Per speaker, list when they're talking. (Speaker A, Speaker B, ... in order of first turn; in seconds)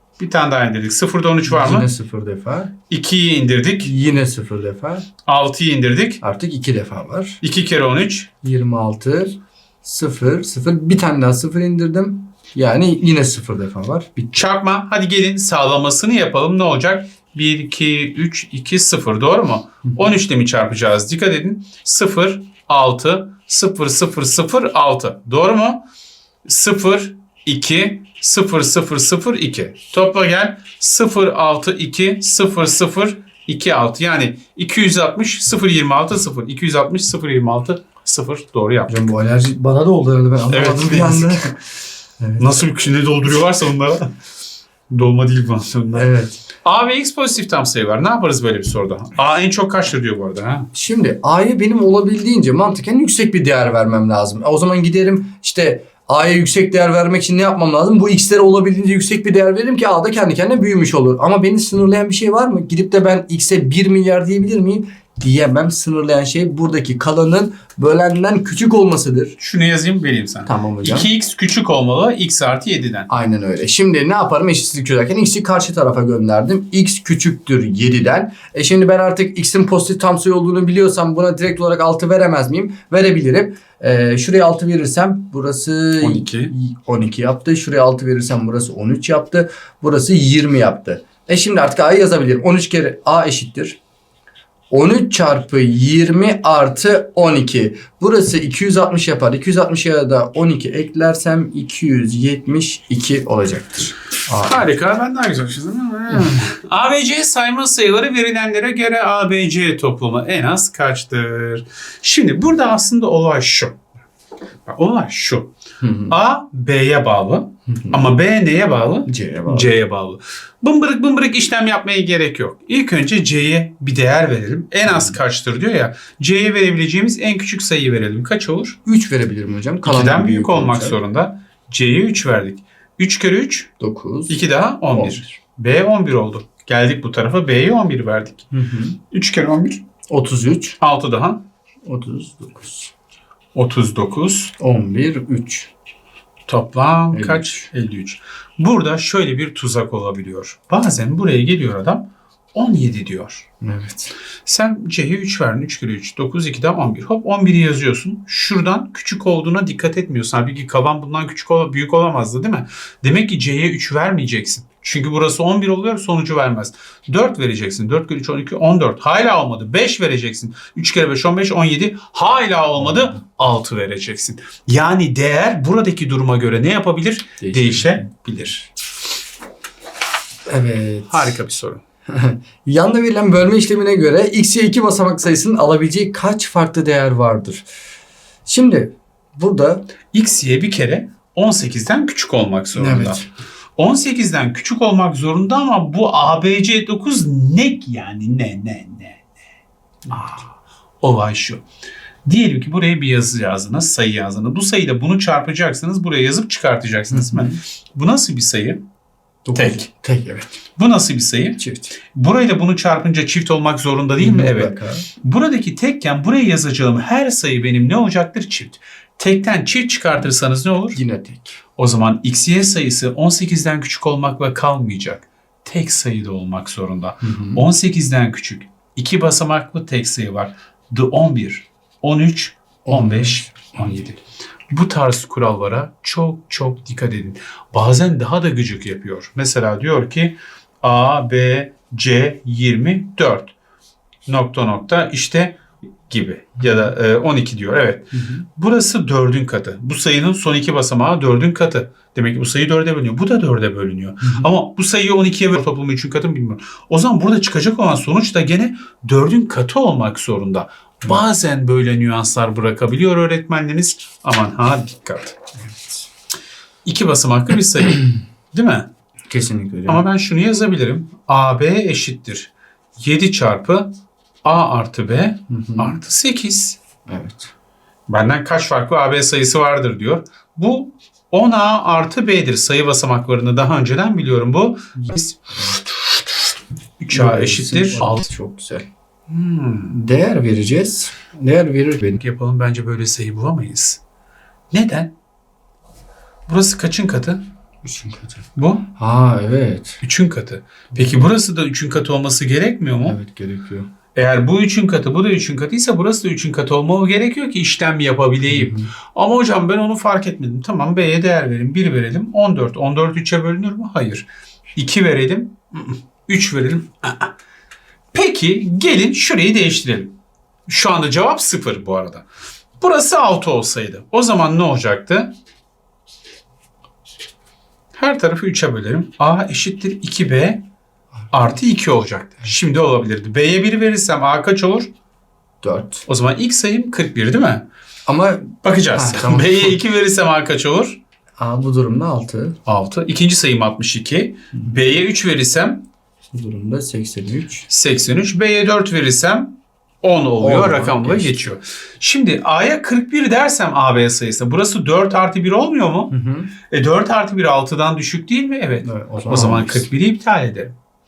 Speaker A: 0.2-1.9, 2.9-3.9, 5.3-6.2, 7.4-8.3, 14.3-25.8, 26.4-38.9, 40.5-41.5, 42.4-44.1, 44.9-50.7, 69.4-73.1, 86.0-86.5, 104.4-113.8, 114.7-115.5, 116.1-128.8, 129.8-133.7, 134.3-138.5, 139.1-139.8, 140.8-141.4, 143.6-144.5, 146.5-153.5, 154.5-178.7, 181.1-181.8, 190.1-193.2, 193.8-199.3, 200.1-200.4, 201.0-201.6, 202.2-208.8, 209.6-209.9, 210.8-211.6, 212.1-221.0, 221.8-243.5, 244.3-265.4, 266.9-268.9, 269.9-273.9, 274.4-276.8, 278.1-286.5, 287.0-288.3, 289.3-290.0, 292.2-294.0, 294.7-295.1, 296.5-297.4, 298.6-298.9, 300.0-303.2, 304.1-317.3, 318.1-320.1, 320.7-322.2, 322.8-325.3, 327.9-330.6, 331.3-334.9, 336.1-337.6, 338.6-341.0, 342.7-345.8, 347.7-356.1, 356.7-360.7
Speaker B: 1.5-2.7, 3.8-5.1, 6.2-7.4, 8.4-14.3, 19.9-20.1, 38.9-41.6, 42.2-42.5, 46.0-46.4, 50.7-69.4, 70.5-71.1, 73.1-93.8, 94.7-104.7, 106.1-106.4, 115.8-116.2, 117.7-118.1, 119.1-119.7, 124.9-125.2, 128.9-131.0, 133.8-135.3, 138.5-139.0, 140.1-140.8, 141.8-142.9, 144.6-145.7, 147.1-147.7, 153.6-154.1, 172.8-173.1, 177.4-178.0, 180.5-181.4, 182.1-187.7, 188.5-189.9, 192.8-193.3, 207.1-207.6, 209.5-210.5, 211.6-211.9, 214.2-215.1, 220.9-221.6, 227.2-227.6, 232.9-233.6, 248.1-248.4, 254.2-254.5, 265.6-266.1, 269.3-270.1, 275.5-276.0, 277.1-277.5, 287.1-288.9, 289.9-292.2, 297.8-298.4, 299.0-300.0, 300.9-301.3, 303.0-303.9, 308.5-308.9, 335.6-336.1, 338.1-339.8, 341.4-342.6, 346.3-347.7, 350.4-351.3, 356.1-356.5, 358.9-359.9